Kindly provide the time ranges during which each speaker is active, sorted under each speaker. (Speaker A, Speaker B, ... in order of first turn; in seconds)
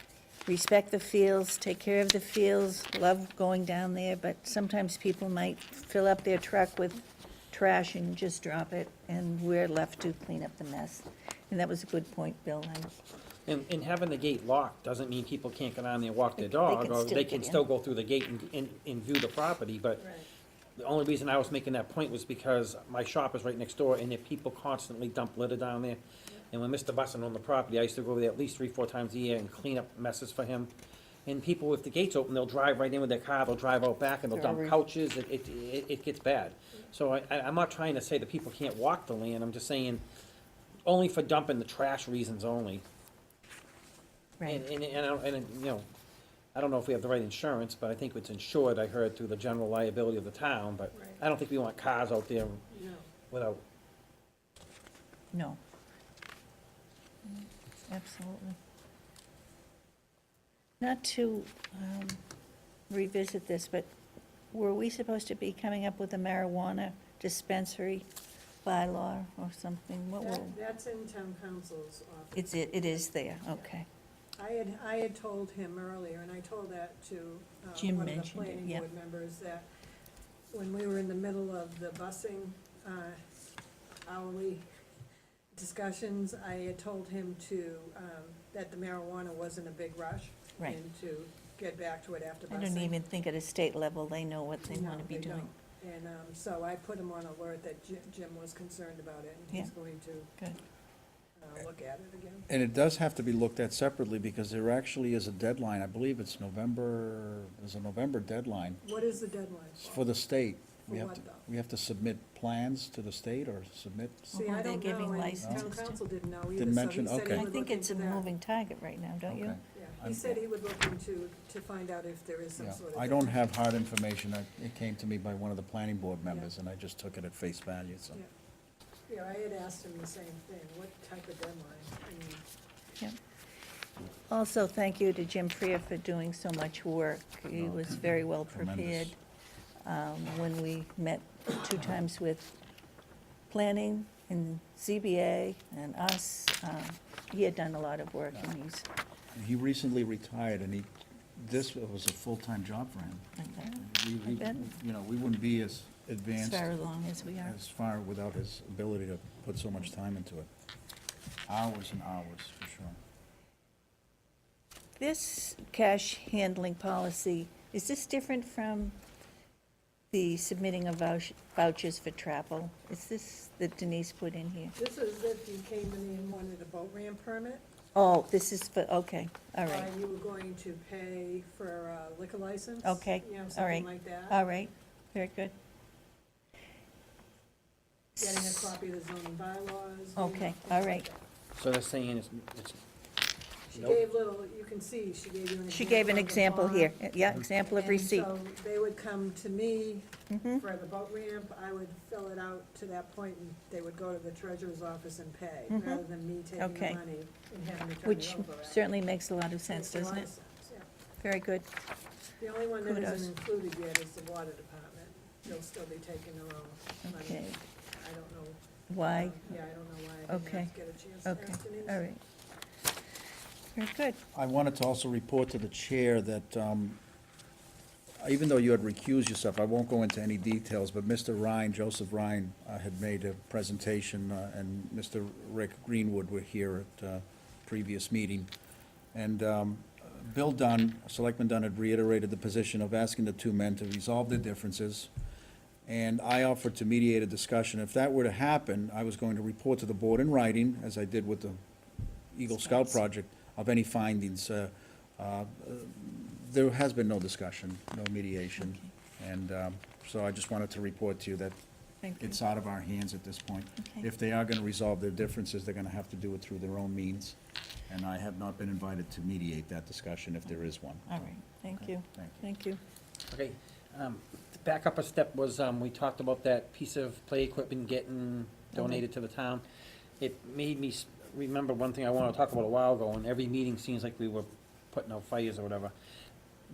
Speaker A: 0.5-12.9, 16.4-17.6, 34.3-34.8, 44.4-44.6, 55.3-55.6, 57.2-58.6, 60.8-62.2, 62.9-63.9, 64.5-68.1, 68.6-70.5, 72.4-73.9, 77.8-78.8, 92.5-95.5, 114.3-116.0, 117.3-119.6, 134.3-139.2, 139.8-142.6, 143.5-148.9, 153.4-154.8, 156.4-157.6, 165.0-169.0, 170.1-174.8, 177.9-179.9, 182.8-185.5, 188.2-188.8, 190.2-191.1, 195.7-198.3, 200.3-200.7, 205.7-206.0, 206.6-207.0, 208.1-210.3, 211.2-211.7, 212.8-213.3, 217.1-217.6, 218.9-219.4, 220.3-220.7, 221.2-222.2, 223.8-224.2, 252.5-253.0, 258.6-258.9, 262.0-262.4, 271.1-272.8, 278.7-279.0
Speaker B: 13.5-20.1, 20.8-30.7, 31.3-40.0, 40.9-42.9, 44.4-45.9, 46.5-52.7, 53.3-53.6, 191.6-192.8, 193.7-194.0, 273.3-279.6, 280.2-285.9
Speaker C: 20.0-20.3, 50.9-51.2, 52.7-53.1, 70.2-73.7, 74.4-79.7, 80.5-83.2, 84.0-84.7, 85.5-93.0, 94.6-100.3, 101.4-102.5, 108.8-110.0, 110.9-111.5, 114.3-118.3, 119.7-123.4, 129.1-132.4, 174.8-177.6, 179.7-184.4, 188.2-191.3, 193.7-197.0, 197.7-208.8, 209.7-210.9, 212.4-222.0
Speaker D: 102.5-108.8, 109.8-114.3, 115.4-115.7, 116.6-117.5, 119.3-120.4, 122.6-128.2, 137.6-139.1, 149.3-156.7, 157.4-160.5, 161.5-163.0, 224.3-227.0, 228.2-238.5, 239.1-245.1, 245.9-251.6, 252.3-261.6, 262.2-272.4